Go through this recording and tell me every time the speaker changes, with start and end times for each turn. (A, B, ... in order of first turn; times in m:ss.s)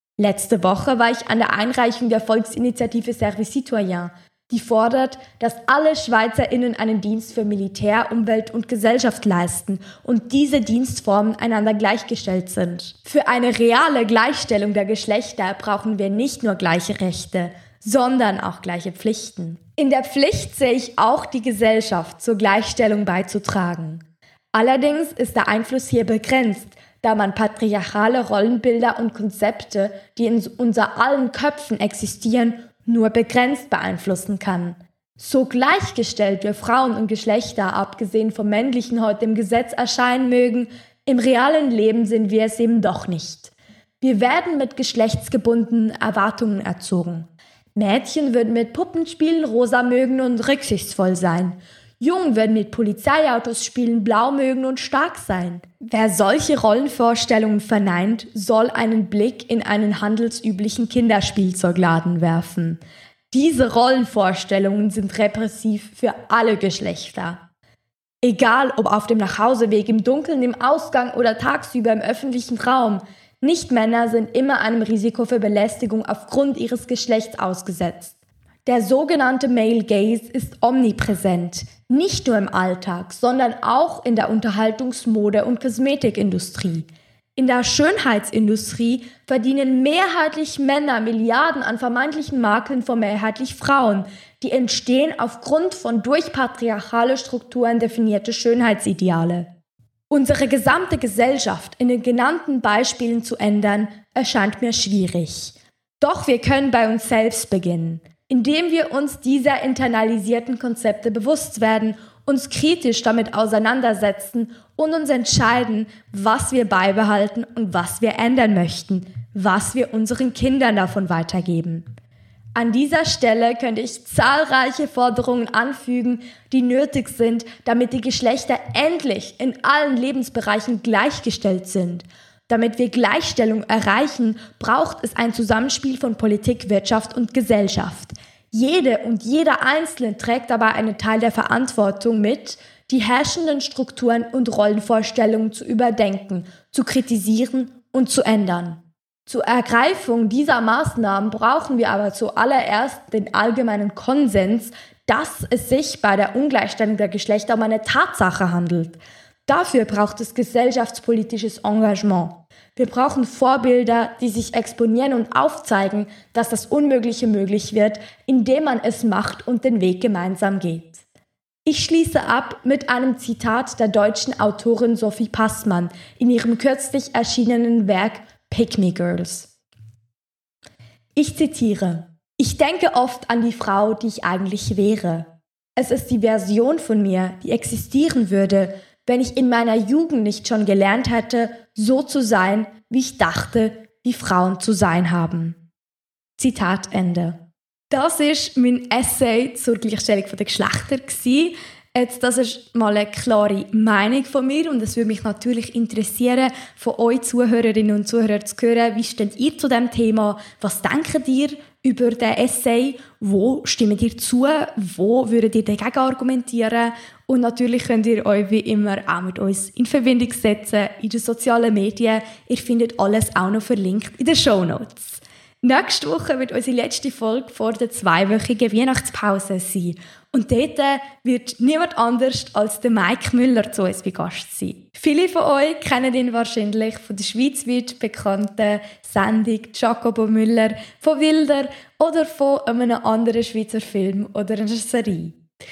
0:00.2-1:07.4 A
1:08.2-1:39.5 A
1:40.1-2:01.9 A
2:02.6-2:51.0 A
2:51.6-2:59.5 A
3:01.2-3:15.6 A
3:16.4-3:17.4 A
3:17.9-4:05.4 A